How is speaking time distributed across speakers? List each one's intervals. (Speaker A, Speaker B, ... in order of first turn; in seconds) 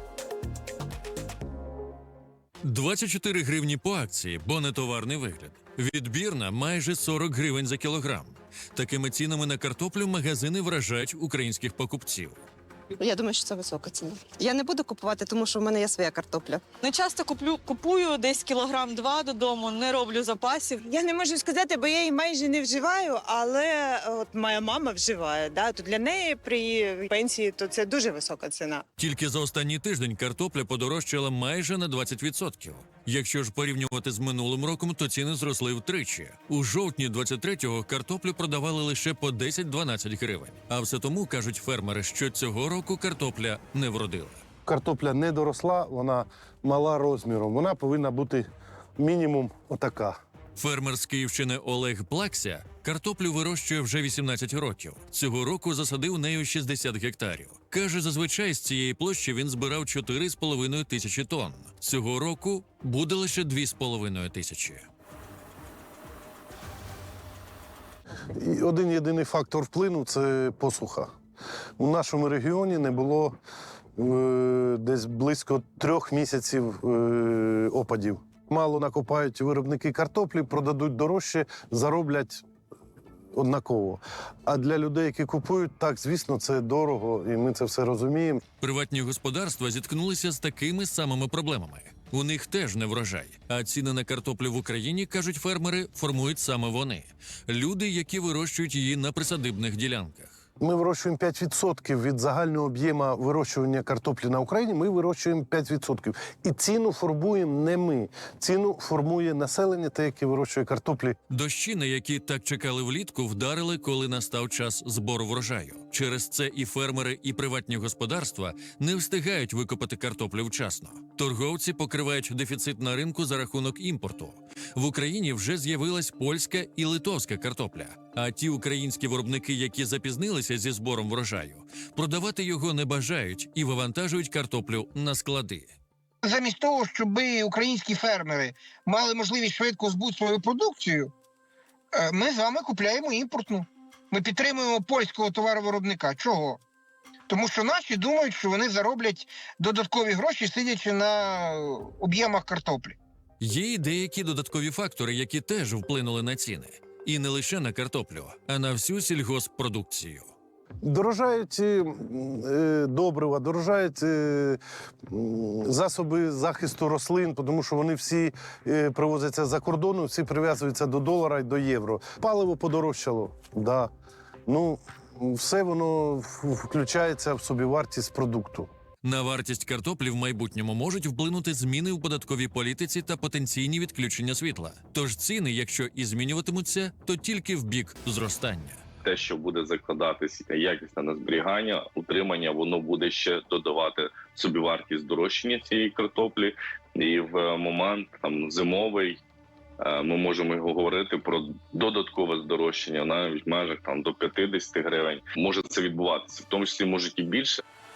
Speaker A: 2.6-12.4, 29.0-44.4, 50.6-64.8, 88.6-100.4, 111.3-135.7, 153.4-160.3, 179.0-188.8
Speaker B: 13.0-16.7
Speaker C: 16.8-20.8
Speaker D: 20.8-28.9
Speaker E: 44.7-48.5, 49.0-50.2, 68.3-71.1, 71.8-73.3, 74.0-82.4, 83.3-88.4, 100.6-111.2, 160.8-173.9, 174.5-178.7
Speaker F: 136.2-141.1, 141.9-146.6, 147.3-153.0
Speaker G: 189.0-199.2, 199.8-207.6